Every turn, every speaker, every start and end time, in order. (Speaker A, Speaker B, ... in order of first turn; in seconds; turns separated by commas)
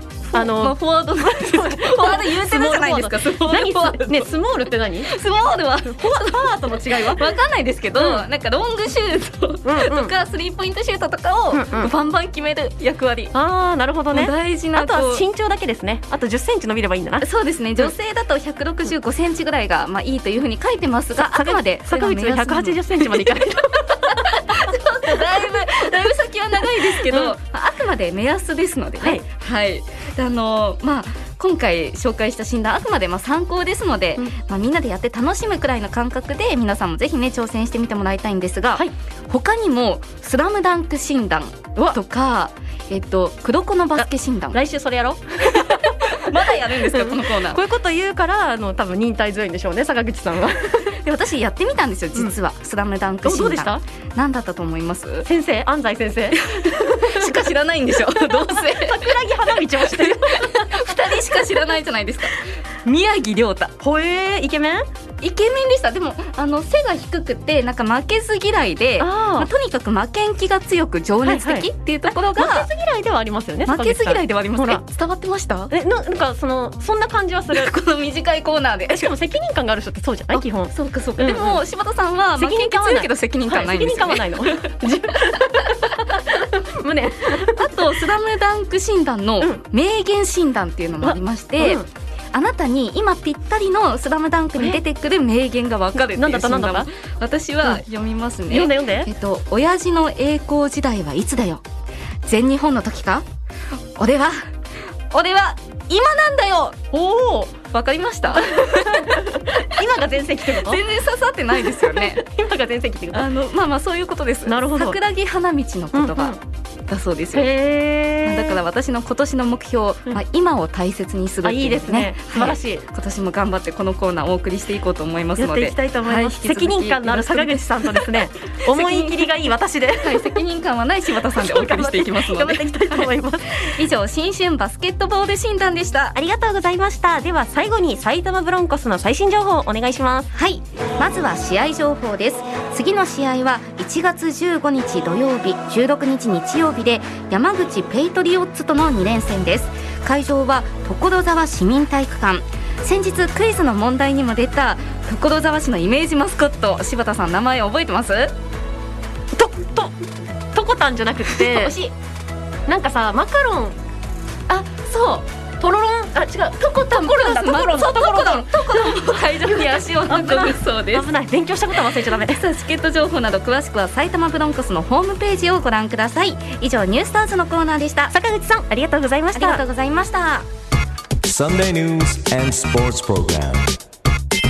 Speaker A: 0.3-4.3, Speaker B: 0.3-5.1, Speaker A: 5.0-13.3, Speaker B: 6.0-7.3, Speaker B: 8.0-8.2, Speaker B: 9.6-10.1, Speaker B: 11.5-11.9, Speaker B: 13.3-17.2, Speaker A: 14.1-15.2, Speaker A: 17.2-44.6, Speaker B: 21.2-25.3, Speaker B: 26.8-27.4, Speaker B: 44.0-50.9, Speaker A: 45.4-47.6, Speaker A: 50.9-55.2, Speaker B: 53.2-53.8, Speaker B: 55.2-61.2, Speaker A: 56.4-59.1, Speaker A: 59.9-63.7, Speaker B: 63.8-64.9, Speaker A: 65.2-72.7, Speaker B: 69.0-69.5, Speaker B: 71.2-74.8, Speaker A: 73.7-75.7, Speaker B: 75.7-77.7, Speaker A: 77.5-79.1, Speaker B: 78.9-81.6, Speaker A: 80.3-84.7, Speaker B: 82.4-87.8, Speaker A: 87.4-101.6, Speaker B: 91.0-91.8, Speaker B: 96.0-96.9, Speaker B: 98.5-99.1, Speaker A: 102.2-103.2, Speaker A: 104.0-104.4, Speaker A: 105.1-106.8, Speaker B: 106.9-107.5, Speaker A: 107.7-109.6, Speaker B: 108.3-110.8, Speaker A: 110.4-112.2, Speaker B: 111.5-113.2, Speaker A: 113.1-116.4, Speaker B: 114.5-115.0, Speaker B: 115.9-116.4, Speaker A: 116.9-117.5, Speaker B: 117.3-118.6, Speaker A: 118.2-129.3, Speaker B: 121.4-122.8, Speaker B: 125.4-130.4, Speaker A: 130.0-136.2, Speaker B: 131.2-133.7, Speaker B: 136.1-140.3, Speaker A: 140.3-158.3, Speaker B: 159.3-160.0, Speaker B: 160.5-161.7, Speaker A: 161.3-161.9, Speaker B: 162.7-163.8, Speaker A: 164.5-165.3, Speaker B: 165.6-172.4, Speaker A: 166.6-171.1, Speaker A: 172.2-178.1, Speaker B: 178.1-179.6, Speaker A: 179.3-180.5, Speaker C: 181.2-183.8